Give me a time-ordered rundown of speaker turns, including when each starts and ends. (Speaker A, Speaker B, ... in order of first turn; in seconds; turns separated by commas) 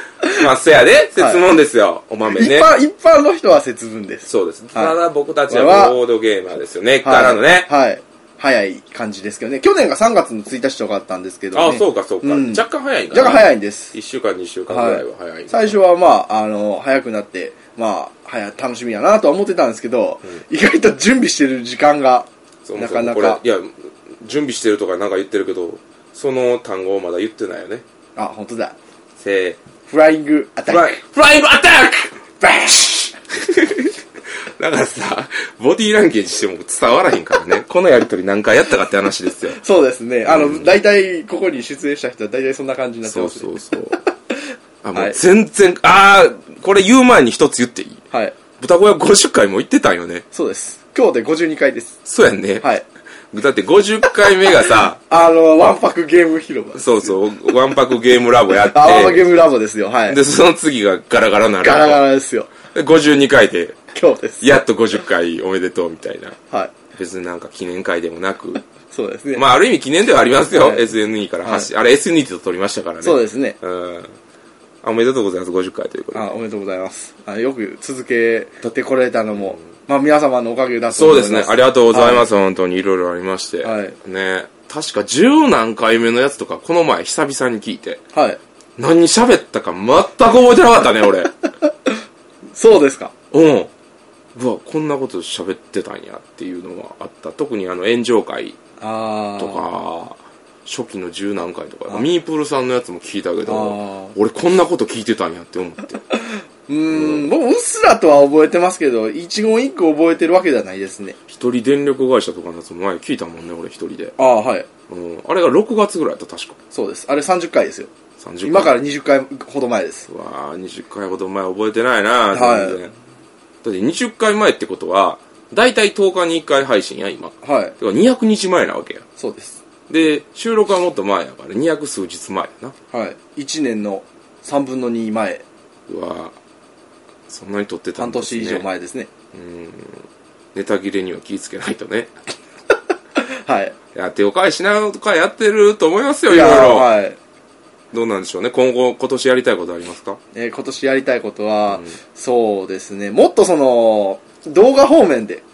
Speaker A: 0.3-2.7, Speaker B: 1.2-1.4, Speaker B: 2.3-5.0, Speaker A: 4.3-7.7, Speaker B: 5.5-6.0, Speaker B: 7.0-13.9, Speaker A: 11.5-15.8, Speaker B: 14.7-23.4, Speaker A: 22.6-27.8, Speaker B: 28.2-28.8, Speaker A: 29.2-29.6, Speaker B: 29.9-31.0, Speaker A: 30.7-33.9, Speaker A: 34.5-39.6, Speaker B: 39.5-43.6, Speaker A: 40.3-40.7, Speaker A: 43.0-44.0, Speaker A: 44.8-48.0, Speaker B: 48.1-48.4, Speaker A: 48.6-50.2, Speaker B: 50.3-52.0, Speaker A: 52.0-52.7, Speaker A: 53.3-55.0, Speaker B: 55.1-57.1, Speaker A: 56.8-59.3, Speaker B: 58.5-60.2, Speaker A: 60.1-62.0, Speaker B: 61.6-62.5, Speaker A: 62.7-63.8, Speaker B: 63.9-64.6, Speaker A: 64.4-66.4, Speaker A: 66.9-68.6, Speaker B: 68.9-69.5, Speaker A: 69.3-74.2, Speaker B: 70.5-70.9, Speaker B: 71.4-71.7, Speaker B: 73.0-73.6, Speaker A: 74.8-76.3, Speaker B: 76.1-82.2, Speaker A: 80.9-88.0, Speaker B: 83.6-84.0, Speaker B: 88.1-88.4, Speaker A: 88.8-91.3, Speaker B: 91.7-91.9, Speaker B: 92.5-93.1, Speaker A: 93.3-93.7, Speaker A: 94.3-98.6, Speaker B: 98.8-99.6, Speaker A: 99.4-106.0, Speaker B: 103.5-104.2, Speaker B: 106.1-111.2, Speaker A: 106.9-107.3, Speaker A: 111.3-114.2, Speaker B: 114.2-114.7, Speaker A: 114.9-116.6, Speaker B: 116.7-117.9, Speaker A: 118.2-118.8, Speaker B: 118.4-120.1, Speaker A: 120.1-122.9, Speaker B: 122.3-122.8, Speaker A: 123.6-129.1, Speaker B: 127.4-127.8, Speaker B: 129.2-129.6, Speaker A: 129.9-132.8, Speaker B: 132.9-135.4, Speaker A: 135.9-136.4, Speaker A: 137.3-138.7, Speaker B: 138.0-139.1, Speaker A: 139.3-142.2, Speaker B: 143.2-143.8, Speaker A: 143.9-146.9, Speaker B: 146.3-147.2, Speaker A: 147.9-150.2, Speaker B: 150.3-155.4